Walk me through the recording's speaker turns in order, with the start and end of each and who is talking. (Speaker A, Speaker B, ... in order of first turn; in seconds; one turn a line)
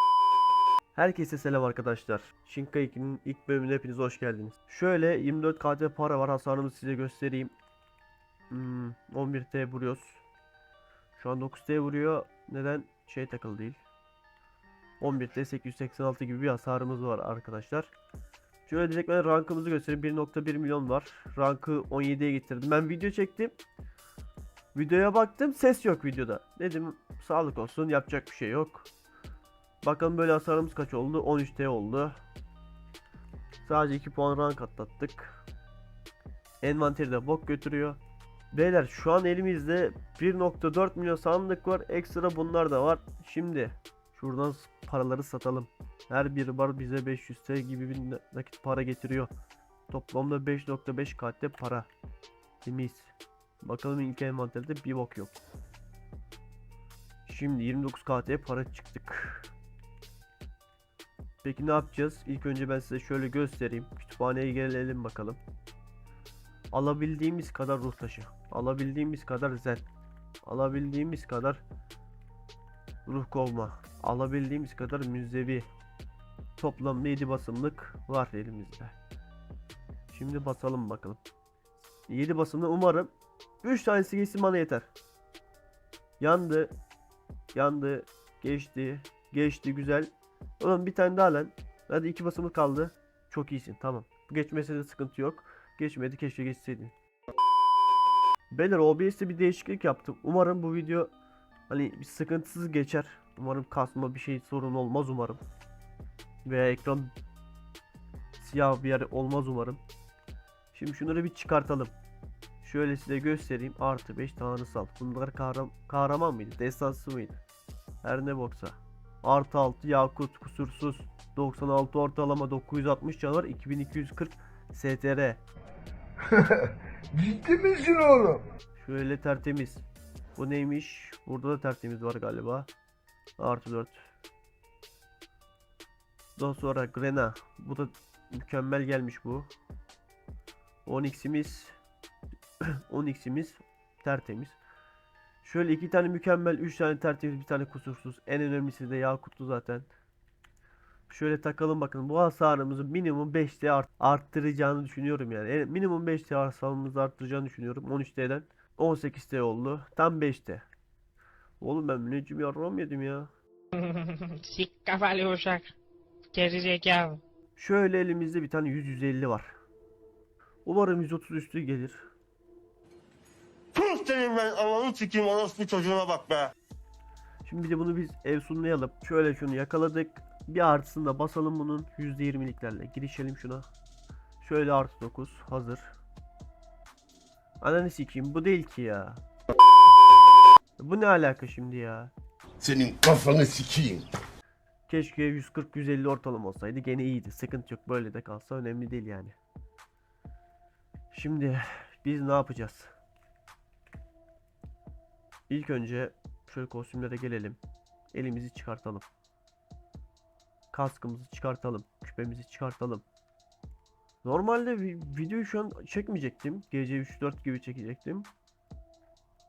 Speaker A: 0.9-7.5
Speaker A: 8.5-10.2
Speaker A: 11.2-13.8
Speaker A: 15.0-17.9
Speaker A: 18.7-23.6
Speaker A: 24.7-28.9
Speaker A: 29.8-32.2
Speaker A: 33.6-35.4
Speaker A: 36.6-38.0
Speaker A: 38.5-49.3
Speaker A: 49.9-51.9
Speaker A: 52.6-55.4
Speaker A: 57.2-59.5
Speaker A: 61.4-65.4
Speaker A: 66.7-69.8
Speaker A: 70.5-71.6
Speaker A: 73.1-75.7
Speaker A: 76.6-79.0
Speaker A: 80.1-81.2
Speaker A: 82.1-83.1
Speaker A: 83.6-84.9
Speaker A: 86.2-86.7
Speaker A: 87.5-96.9
Speaker A: 98.5-101.1
Speaker A: 101.7-105.4
Speaker A: 106.5-107.1
Speaker A: 108.4-109.8
Speaker A: 110.7-111.9
Speaker A: 112.6-117.4
Speaker A: 118.0-125.4
Speaker B: 127.2-128.4
Speaker A: 128.8-132.7
Speaker A: 133.4-134.1
Speaker A: 136.4-139.5
Speaker A: 140.8-141.8
Speaker A: 142.6-144.6
Speaker A: 145.4-149.9
Speaker A: 151.1-160.7
Speaker A: 161.6-163.3
Speaker C: 163.8-165.7
Speaker C: 166.3-167.2
Speaker A: 167.6-169.5
Speaker A: 170.7-172.0
Speaker D: 173.8-176.5
Speaker B: 173.8-176.3
Speaker A: 177.4-183.7
Speaker A: 184.4-185.9
Speaker A: 187.6-189.2
Speaker A: 190.8-192.1
Speaker B: 192.6-194.1
Speaker A: 194.9-199.4
Speaker A: 201.1-202.9
Speaker A: 205.5-207.6
Speaker A: 208.1-209.1
Speaker A: 210.7-213.1
Speaker A: 214.2-218.3